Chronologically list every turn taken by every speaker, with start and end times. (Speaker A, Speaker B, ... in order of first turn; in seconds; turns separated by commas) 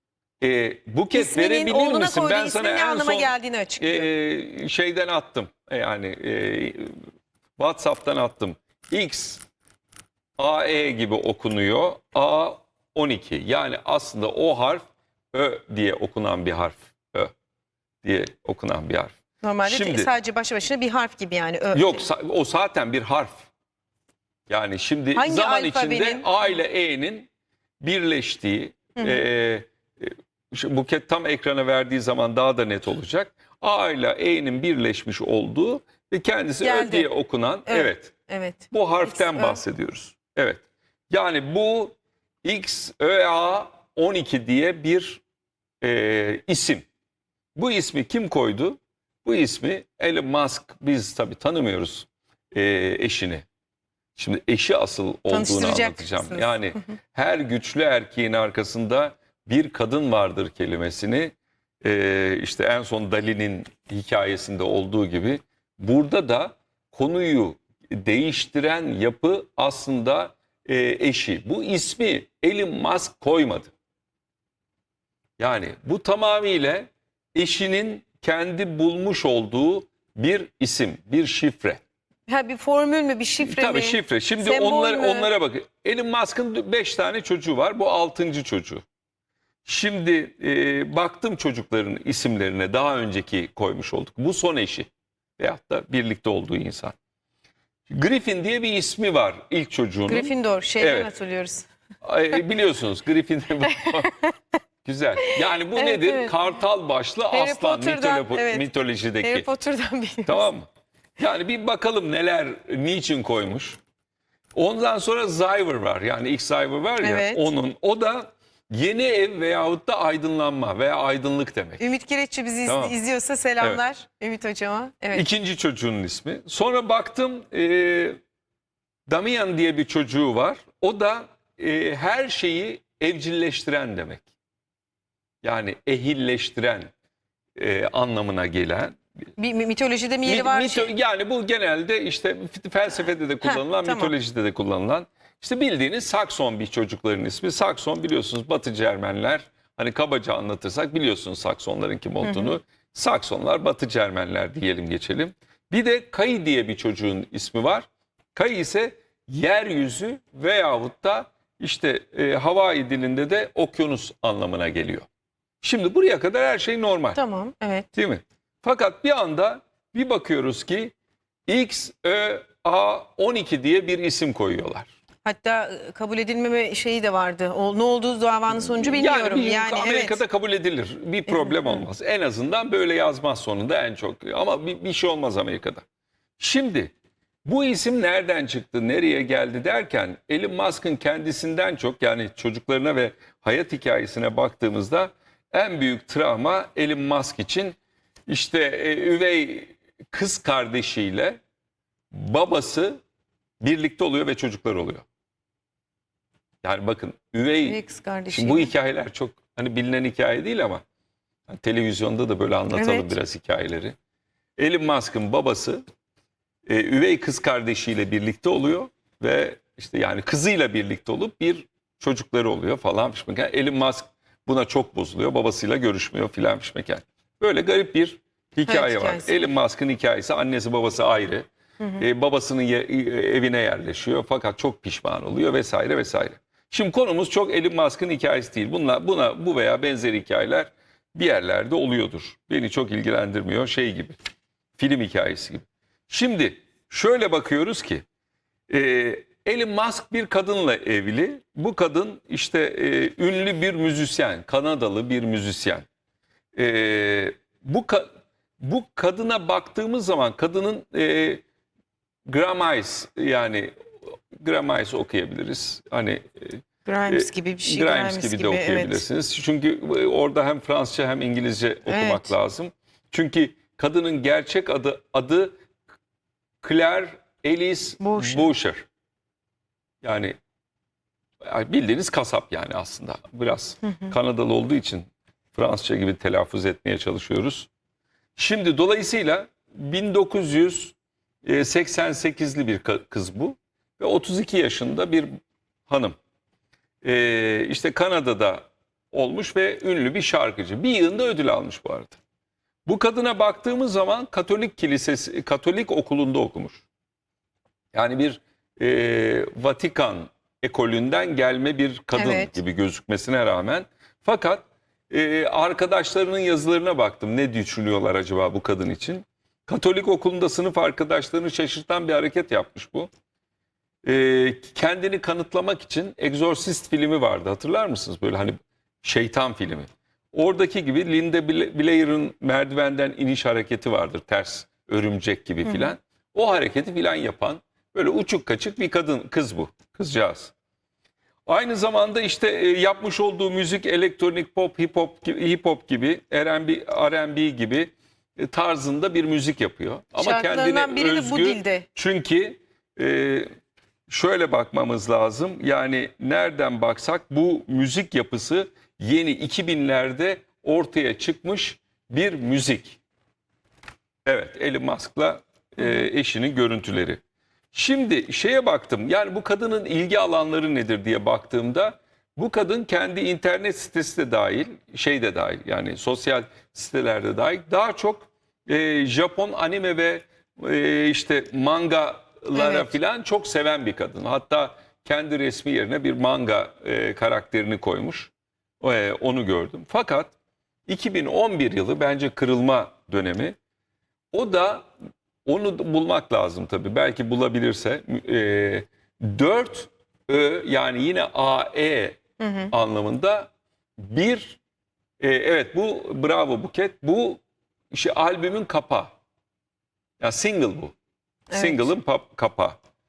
Speaker A: 0.4-6.9, Speaker B: 1.1-4.1, Speaker A: 7.6-9.4, Speaker A: 10.4-17.3, Speaker A: 18.0-20.1, Speaker B: 19.4-22.0, Speaker A: 21.7-23.5, Speaker A: 24.5-27.3, Speaker B: 25.1-26.5, Speaker A: 27.8-38.1, Speaker B: 28.9-29.2, Speaker B: 36.6-37.1, Speaker B: 37.6-39.6, Speaker A: 38.7-45.2, Speaker A: 45.8-46.9, Speaker A: 47.5-53.4, Speaker A: 54.1-73.7, Speaker B: 55.3-56.9, Speaker A: 75.4-81.8, Speaker B: 82.3-85.3, Speaker A: 83.4-88.8, Speaker A: 89.6-97.0, Speaker A: 97.9-101.1, Speaker B: 100.1-101.7, Speaker A: 102.0-104.1, Speaker B: 103.8-104.3, Speaker A: 104.8-109.5, Speaker B: 105.2-106.3, Speaker B: 107.3-108.7, Speaker B: 109.2-110.5, Speaker A: 110.2-110.7, Speaker A: 111.2-113.8, Speaker A: 114.5-121.8, Speaker B: 117.0-117.5, Speaker B: 121.8-125.2, Speaker A: 122.7-122.9, Speaker A: 125.1-128.2, Speaker A: 129.1-134.3, Speaker A: 135.4-136.9, Speaker A: 137.6-139.0, Speaker B: 139.4-140.9, Speaker A: 140.2-165.1, Speaker B: 143.4-144.1, Speaker B: 152.2-152.5, Speaker A: 165.6-167.2, Speaker B: 167.1-167.9, Speaker A: 167.9-170.9, Speaker A: 171.5-174.9, Speaker B: 175.2-180.2, Speaker A: 178.5-185.8, Speaker B: 181.3-181.8, Speaker A: 186.4-186.9, Speaker A: 187.4-197.8, Speaker A: 198.3-201.4, Speaker A: 202.1-203.0, Speaker A: 203.6-205.1, Speaker A: 206.6-207.8, Speaker B: 207.6-208.7, Speaker A: 208.3-210.8, Speaker A: 211.5-213.9, Speaker B: 212.7-213.2, Speaker A: 214.6-215.8, Speaker A: 216.7-231.5, Speaker B: 228.7-229.3, Speaker A: 232.0-244.2, Speaker A: 244.8-248.0, Speaker A: 248.7-255.8, Speaker A: 256.5-258.1, Speaker A: 258.6-261.4, Speaker A: 262.2-275.6, Speaker B: 266.8-269.0, Speaker B: 271.9-272.4, Speaker A: 276.6-278.8, Speaker B: 278.0-278.5, Speaker A: 280.0-280.4, Speaker A: 281.4-287.7, Speaker B: 283.8-284.1, Speaker A: 288.4-295.3, Speaker A: 295.9-296.2, Speaker A: 297.0-302.2, Speaker A: 302.9-306.8, Speaker A: 307.9-323.1, Speaker B: 312.1-312.5, Speaker A: 324.0-340.5, Speaker B: 335.6-335.9, Speaker A: 341.4-353.5, Speaker B: 350.2-351.9, Speaker A: 354.1-363.0, Speaker A: 364.2-367.2, Speaker B: 365.8-366.1, Speaker A: 367.7-390.3, Speaker B: 382.5-382.9, Speaker A: 390.9-393.6, Speaker A: 394.3-394.9, Speaker A: 395.4-402.2, Speaker B: 402.4-402.7, Speaker A: 402.7-404.6, Speaker A: 405.2-407.4, Speaker A: 407.9-409.1, Speaker A: 410.2-410.9, Speaker B: 411.5-411.9, Speaker A: 411.5-412.8